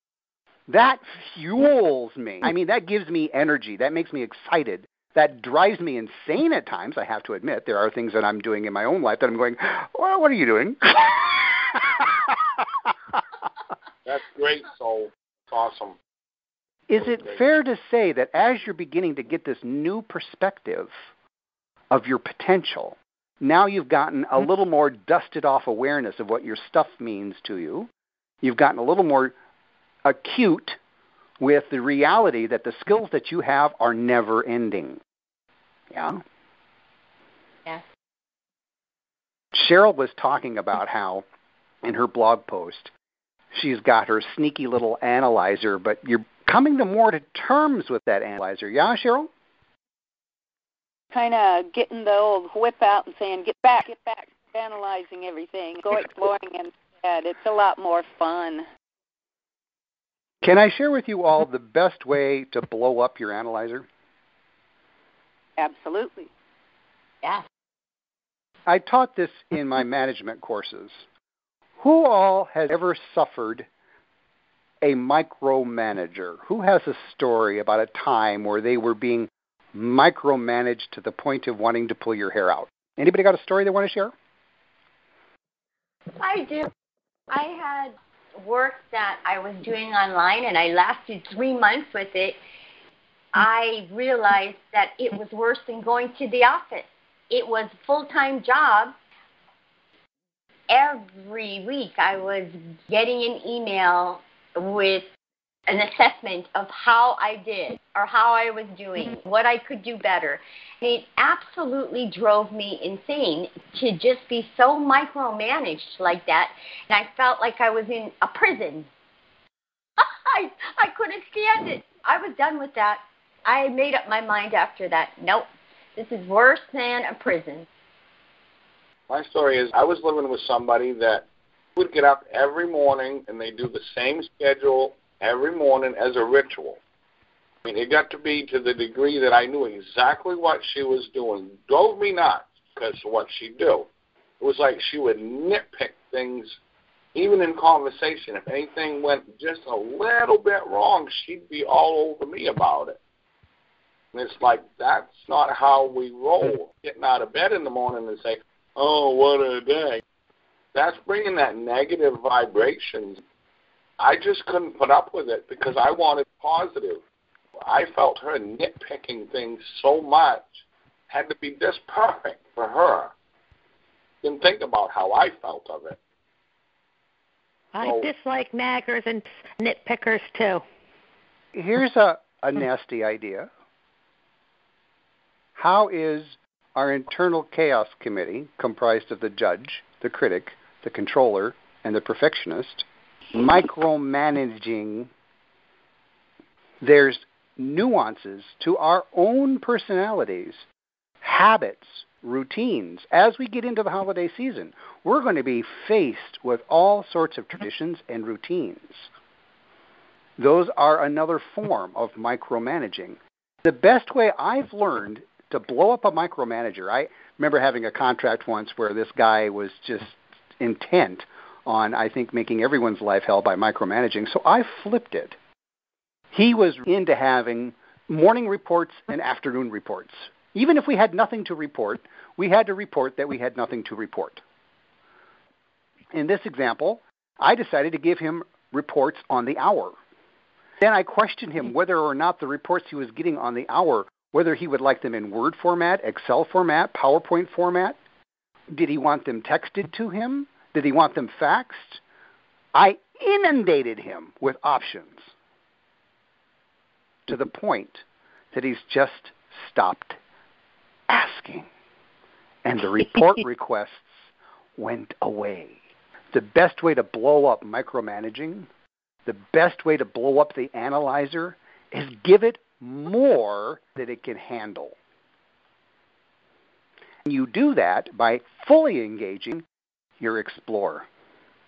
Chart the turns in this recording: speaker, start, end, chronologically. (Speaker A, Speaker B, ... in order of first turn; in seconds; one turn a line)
Speaker A: 0.7-12.3
Speaker B: 14.1-16.0
Speaker A: 16.9-20.9
Speaker B: 17.0-17.4
Speaker A: 21.9-27.9
Speaker A: 28.4-29.4
Speaker A: 30.1-30.8
Speaker A: 31.4-35.0
Speaker A: 35.9-36.2
Speaker A: 39.5-41.3
Speaker A: 41.8-42.9
Speaker A: 43.5-49.3
Speaker C: 51.1-58.7
Speaker A: 60.4-63.9
Speaker C: 65.6-66.3
Speaker A: 68.7-71.0
Speaker A: 71.8-73.7
Speaker A: 74.8-84.1
Speaker D: 86.2-86.7
Speaker D: 87.3-92.4
Speaker D: 93.3-99.0
Speaker D: 100.7-105.1
Speaker D: 105.7-118.9
Speaker D: 120.0-127.7
Speaker B: 129.1-136.8
Speaker B: 137.7-143.9
Speaker B: 144.4-146.6
Speaker B: 147.2-153.0
Speaker B: 154.1-160.0
Speaker B: 160.7-163.2
Speaker B: 164.0-167.0
Speaker B: 167.7-173.1
Speaker B: 174.2-176.0
Speaker E: 177.7-180.6
Speaker B: 177.8-178.1
Speaker A: 181.5-183.5
Speaker A: 185.6-195.1
Speaker A: 196.8-200.7
Speaker A: 201.2-209.1
Speaker A: 210.4-225.4
Speaker A: 226.3-234.4
Speaker A: 236.1-240.0
Speaker A: 240.8-248.0
Speaker A: 248.7-252.0
Speaker A: 252.7-255.3
Speaker A: 257.3-260.2
Speaker A: 261.1-261.7
Speaker A: 262.6-265.8
Speaker A: 266.3-268.7
Speaker A: 269.3-275.0
Speaker A: 277.2-279.7
Speaker A: 280.2-281.1